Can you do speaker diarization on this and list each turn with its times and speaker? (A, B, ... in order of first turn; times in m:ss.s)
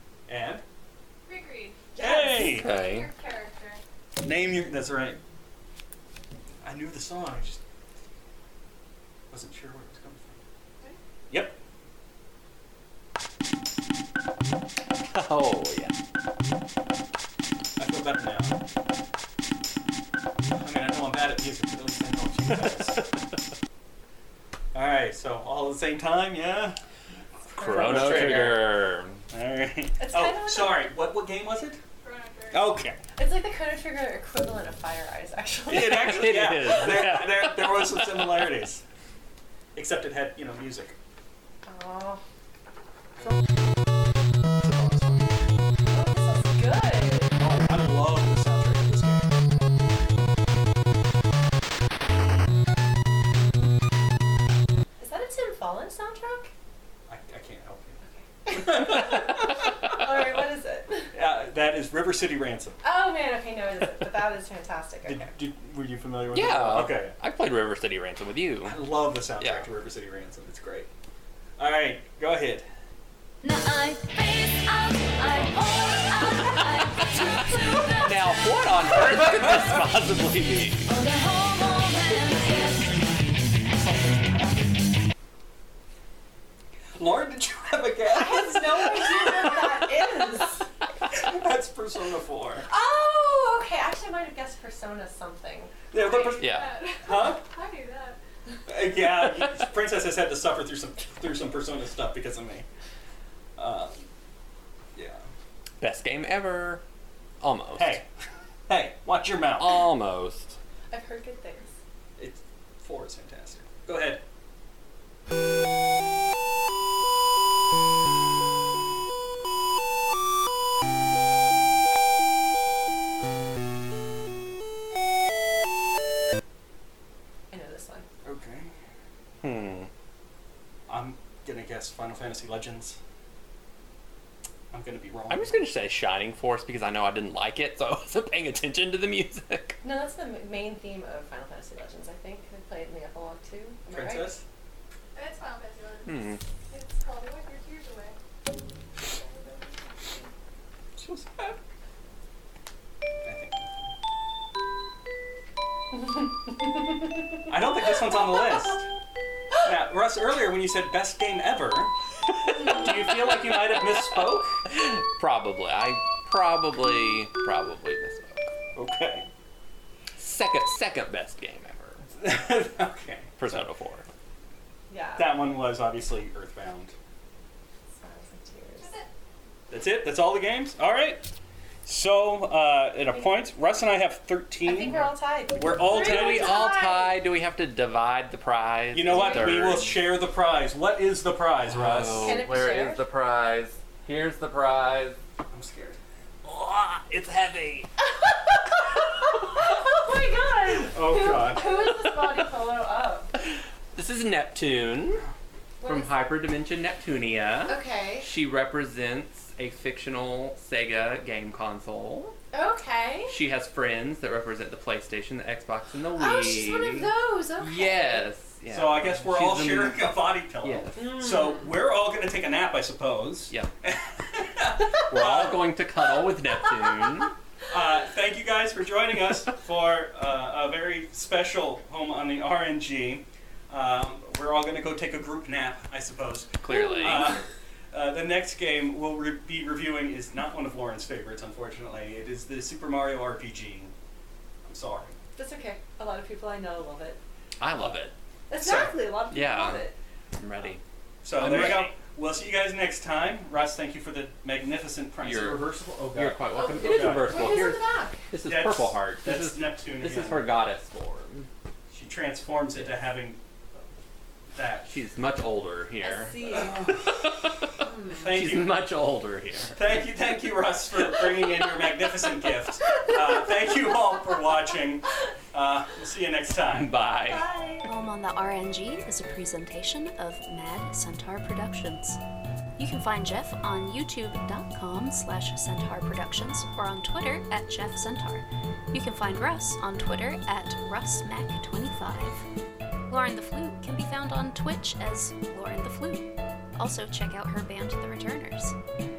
0:00.3-0:00.6 A
0:01.2-0:03.8 B
0:02.0-0:02.5 C
0:02.0-0:02.7 A
0:02.4-0:03.1 D
0:04.2-0:05.2 A
0:06.6-0:07.6 A
0:09.3-0:10.4 A
0:11.3-0:11.6 A
0:15.0-0:15.9 D
0:17.8-0:18.6 A
0:20.5-0:23.1 A
0:24.7-0:26.8 A
0:27.5-0:31.8 A
0:27.6-0:29.2 D
0:27.6-0:28.5 C
0:30.0-0:30.8 C
0:32.0-0:32.7 B
0:32.5-0:33.0 A
0:33.2-0:36.3 C
0:35.7-0:38.8 A
0:35.9-0:38.5 D
0:39.7-0:41.0 A
0:41.6-0:42.2 C
0:44.6-0:45.4 A
0:45.9-0:47.4 C
0:47.4-0:49.3 A
0:55.0-0:56.5 C
0:57.1-1:00.0 A
0:58.0-1:01.1 C
1:01.1-1:02.8 A
1:02.8-1:05.3 C
1:05.0-1:07.2 A
1:06.3-1:09.7 D
1:08.6-1:10.9 A
1:11.6-1:12.7 A
1:13.4-1:19.1 E
1:15.4-1:15.7 D
1:17.4-1:20.8 D
1:19.1-1:19.8 A
1:20.8-1:23.0 E
1:27.0-1:30.2 A
1:28.1-1:30.6 C
1:31.1-1:32.7 A
1:32.7-1:36.0 C
1:35.9-1:36.5 A
1:35.9-1:38.2 B
1:36.4-1:36.8 D
1:37.0-1:37.4 A
1:38.7-1:42.6 A
1:43.6-1:44.0 A
1:44.9-1:45.2 A
1:45.8-1:46.8 D
1:47.4-1:48.0 D
1:47.7-1:48.1 A
1:48.7-1:49.8 A
1:49.6-1:50.6 D
1:50.9-1:51.7 C
1:52.2-1:54.2 A
2:07.5-2:08.1 C
2:08.2-2:08.7 A
2:09.4-2:09.9 D
2:10.9-2:13.0 A
2:14.7-2:15.5 A
2:15.3-2:19.8 D
2:19.8-2:24.3 C
2:23.9-2:24.4 A
2:25.1-2:28.2 B
2:26.0-2:26.4 D
2:29.0-2:30.3 B
2:31.0-2:31.5 D
2:33.2-2:34.0 A
2:37.5-2:38.9 A
2:39.6-2:41.9 A
2:42.5-2:44.6 A
2:44.7-2:48.5 D
2:48.7-2:49.3 A
2:50.2-2:52.0 D
2:52.2-2:53.7 A
2:53.4-2:54.0 D
2:54.9-2:55.4 C
2:55.2-2:56.9 A
2:58.0-2:58.9 C
2:58.8-2:59.1 B
2:59.7-3:01.2 A
3:01.8-3:06.7 A
3:04.6-3:07.2 C
3:05.8-3:10.1 D
3:08.9-3:12.4 A
3:09.1-3:09.4 C
3:11.7-3:15.2 D
3:12.1-3:13.0 C
3:15.5-3:16.0 A
3:16.4-3:17.9 D
3:18.2-3:23.3 C
3:20.9-3:21.8 A
3:23.9-3:25.2 D
3:25.8-3:26.2 C
3:25.8-3:32.4 D
3:27.7-3:28.3 C
3:32.5-3:33.4 C
3:33.3-3:40.1 D
3:36.2-3:38.3 C
3:38.7-3:45.7 A
3:40.6-3:41.5 D
3:45.0-3:47.3 D
3:47.7-4:03.9 A
3:56.6-3:57.4 D
4:04.6-4:05.1 A
4:05.4-4:07.2 C
4:07.6-4:08.1 D
4:08.5-4:10.0 C
4:08.6-4:09.0 A
4:09.3-4:10.8 D
4:11.2-4:17.7 A
4:11.4-4:11.9 D
4:15.2-4:21.5 D
4:16.5-4:18.2 C
4:18.4-4:20.6 A
4:21.9-4:23.4 A
4:24.5-4:24.9 A
4:24.9-4:29.8 D
4:26.0-4:26.8 C
4:26.5-4:28.8 A
4:29.7-4:36.9 A
4:36.7-4:37.5 D
4:37.3-4:37.9 C
4:37.8-4:42.2 E
4:42.8-4:52.4 E
4:53.1-4:58.8 E